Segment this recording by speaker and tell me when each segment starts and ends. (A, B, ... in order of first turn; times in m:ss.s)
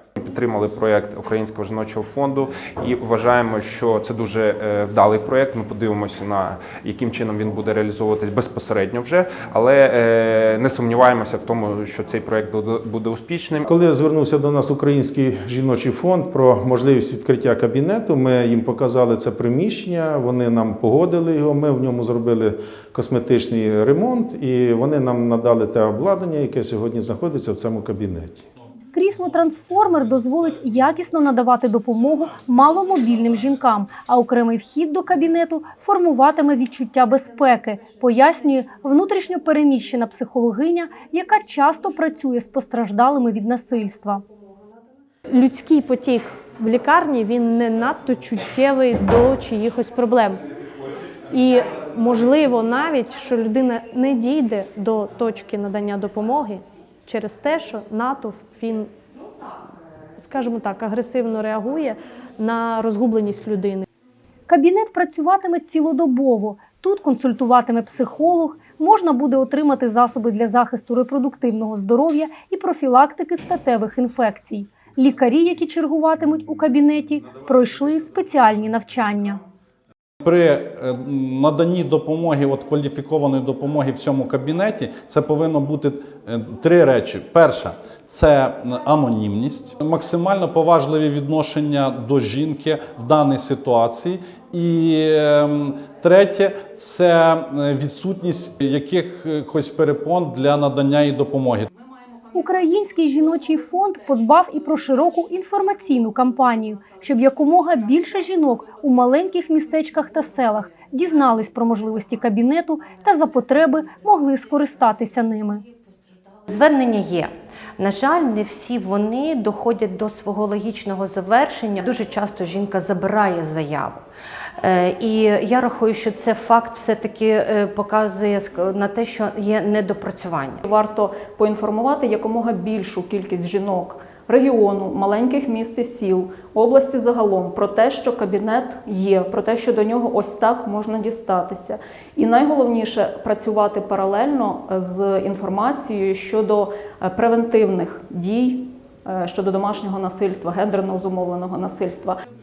0:00.2-0:13.7 A
0:13.7-0:28.4 B
0:28.9-0:44.2 C
0:45.3-0:50.4 D
0:51.3-0:58.9 D
1:00.2-1:03.9 D
1:04.5-1:19.4 C
1:20.2-1:41.7 E
1:42.3-1:55.6 C
1:56.5-2:04.0 F
2:04.6-2:10.6 F
2:10.6-2:32.2 G